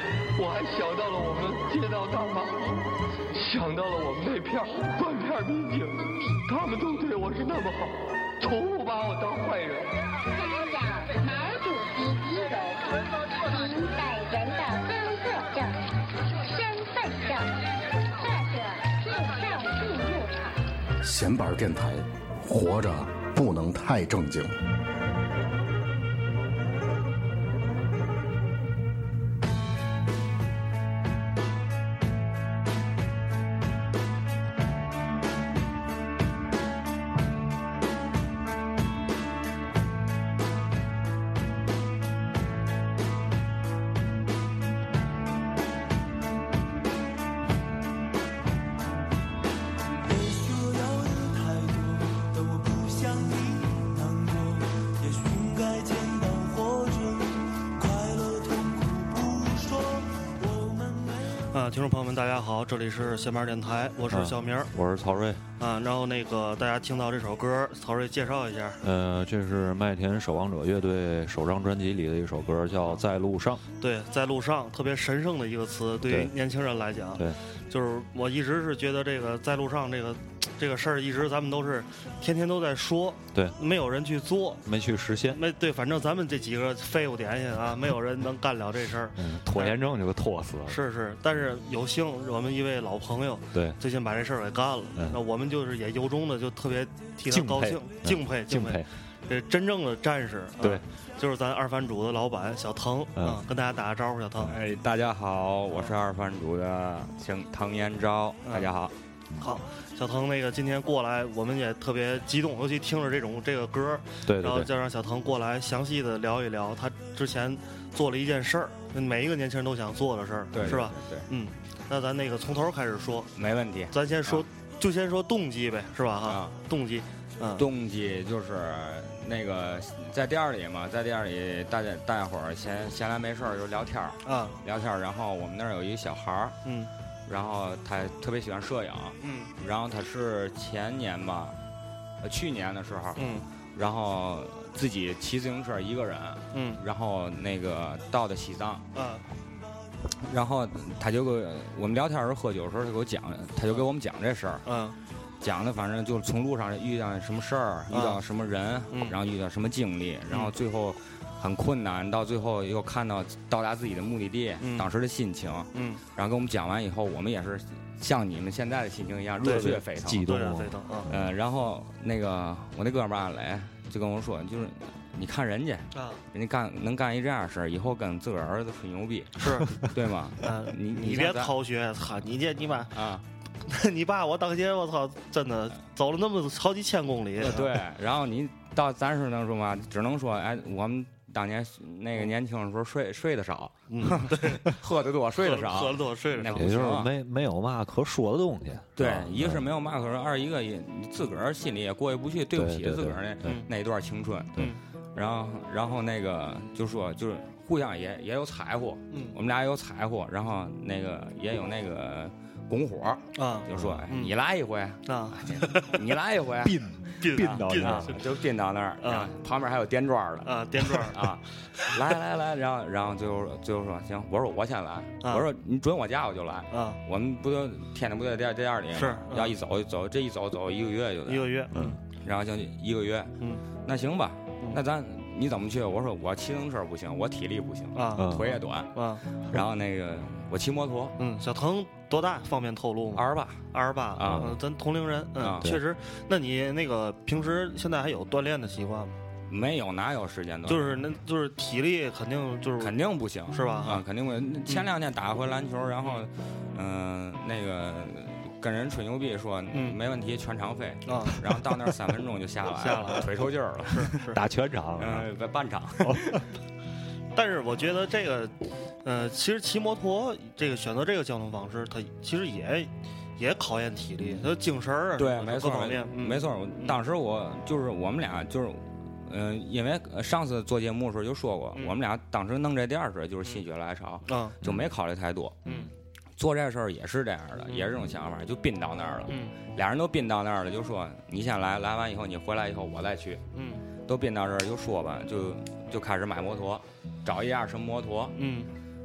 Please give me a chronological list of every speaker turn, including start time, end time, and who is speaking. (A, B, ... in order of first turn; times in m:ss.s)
0:00.4-0:02.7 A
0:03.3-0:10.0 A
0:10.3-0:15.8 B
0:16.3-0:17.6 B
0:18.1-0:20.6 B
0:21.0-0:24.5 C
0:50.6-0:52.7 D
0:53.2-0:54.6 D
0:55.4-0:57.2 D
0:58.5-0:59.6 D
1:01.5-1:04.7 E
1:04.1-1:05.4 F
1:05.6-1:08.8 E
1:08.8-1:13.6 F
1:13.8-1:24.6 E
1:16.0-1:16.3 F
1:24.6-1:25.4 F
1:25.3-1:29.8 E
1:29.2-1:30.8 F
1:30.7-1:44.5 E
1:33.5-1:33.8 F
1:37.2-1:38.9 F
1:40.6-1:40.8 F
1:43.2-1:43.4 F
1:44.4-1:48.9 G
1:48.4-1:48.7 E
1:49.4-2:03.3 E
1:54.2-1:54.7 F
2:00.5-2:01.3 G
2:03.3-2:04.4 G
2:03.9-2:07.7 E
2:06.2-2:06.6 G
2:07.6-2:16.6 G
2:14.2-2:14.6 E
2:16.6-2:16.9 E
2:17.3-2:21.6 G
2:19.2-2:19.5 E
2:22.2-2:28.8 G
2:23.2-2:23.5 E
2:26.5-2:26.8 E
2:28.9-2:29.2 E
2:30.2-2:34.6 G
2:34.6-2:35.0 E
2:35.4-2:50.3 G
2:37.9-2:38.2 E
2:44.6-2:44.9 E
2:45.7-2:46.0 E
2:49.4-2:51.1 E
2:49.4-2:51.3 F
2:51.1-3:01.5 G
2:55.9-2:56.2 E
2:59.4-2:59.8 E
3:00.4-3:02.9 E
3:02.9-3:03.2 G
3:03.6-3:07.7 E
3:07.4-3:17.1 G
3:13.9-3:14.7 E
3:15.4-3:16.9 E
3:16.5-3:19.7 F
3:19.0-4:01.2 G
3:22.5-3:23.6 F
3:29.1-3:29.4 E
3:33.3-3:34.3 E
3:33.7-3:34.1 F
3:35.1-3:36.0 E
3:36.6-3:38.2 F
3:37.2-3:38.2 E
3:39.0-3:39.3 E
3:40.4-3:41.2 E
3:46.7-3:47.0 E
3:48.9-3:49.6 E
3:51.3-3:51.7 E
3:51.7-3:52.0 F
3:57.9-3:59.2 E
3:58.2-3:58.5 F
4:01.2-4:09.2 E
4:03.2-4:03.6 G
4:04.2-4:04.5 G
4:04.2-4:04.5 F
4:05.4-4:05.7 G
4:09.5-4:11.0 G
4:10.7-4:13.0 E
4:12.8-4:24.2 G
4:13.5-4:14.0 E
4:21.0-4:21.4 E
4:22.8-4:23.3 E
4:23.9-4:24.4 E
4:24.3-4:25.3 F
4:25.0-4:26.4 G
4:26.0-4:26.4 F
4:27.3-4:37.0 E
4:35.2-4:45.7 G
4:44.2-4:44.6 E
4:44.6-4:44.9 F
4:45.6-4:45.9 E
4:46.4-4:53.4 G
4:49.3-4:49.6 E
4:53.5-4:53.8 E
4:54.1-4:58.4 G
4:58.4-4:58.7 E